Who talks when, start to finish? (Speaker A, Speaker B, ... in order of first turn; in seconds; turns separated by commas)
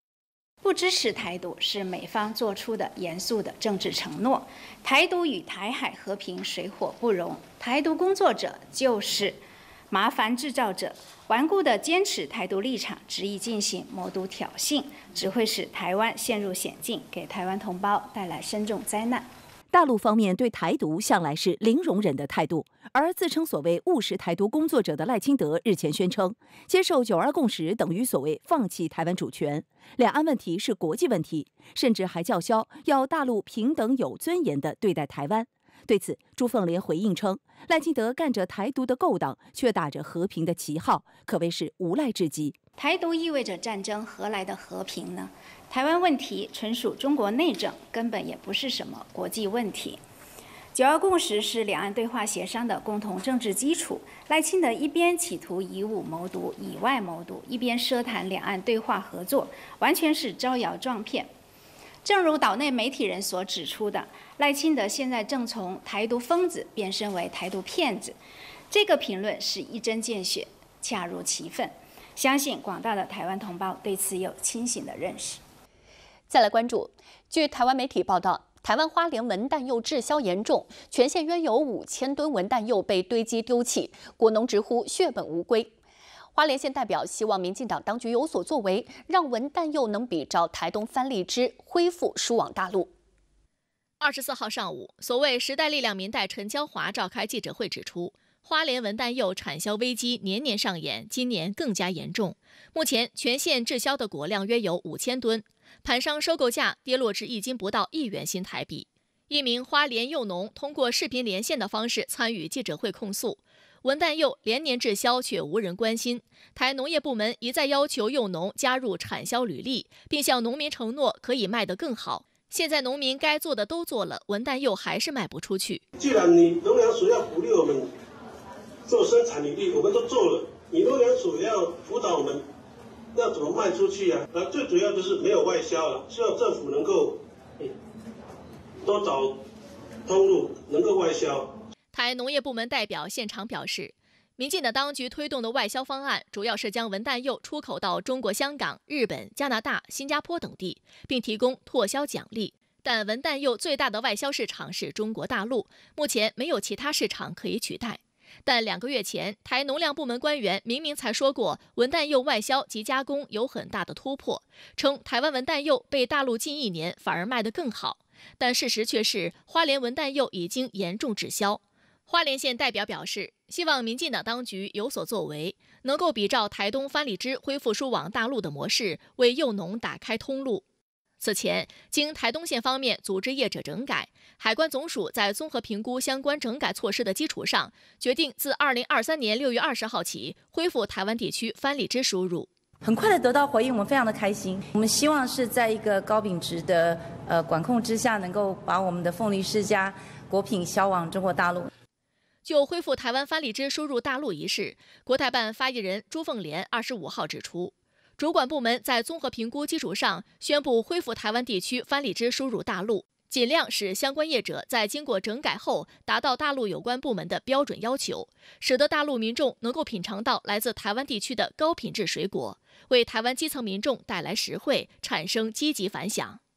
Speaker A: 0.6-19.3, Speaker B: 19.7-42.6, Speaker A: 42.8-50.0, Speaker A: 50.7-61.3, Speaker A: 62.0-68.2, Speaker A: 68.7-75.4, Speaker C: 76.3-85.7, Speaker C: 86.3-92.9, Speaker D: 94.0-125.8, Speaker E: 126.0-127.9, Speaker E: 128.9-132.4, Speaker E: 133.2-137.1, Speaker E: 138.8-139.3, Speaker E: 140.1-141.4, Speaker D: 141.9-180.6, Speaker D: 181.2-192.5, Speaker F: 192.8-201.7, Speaker D: 202.4-226.4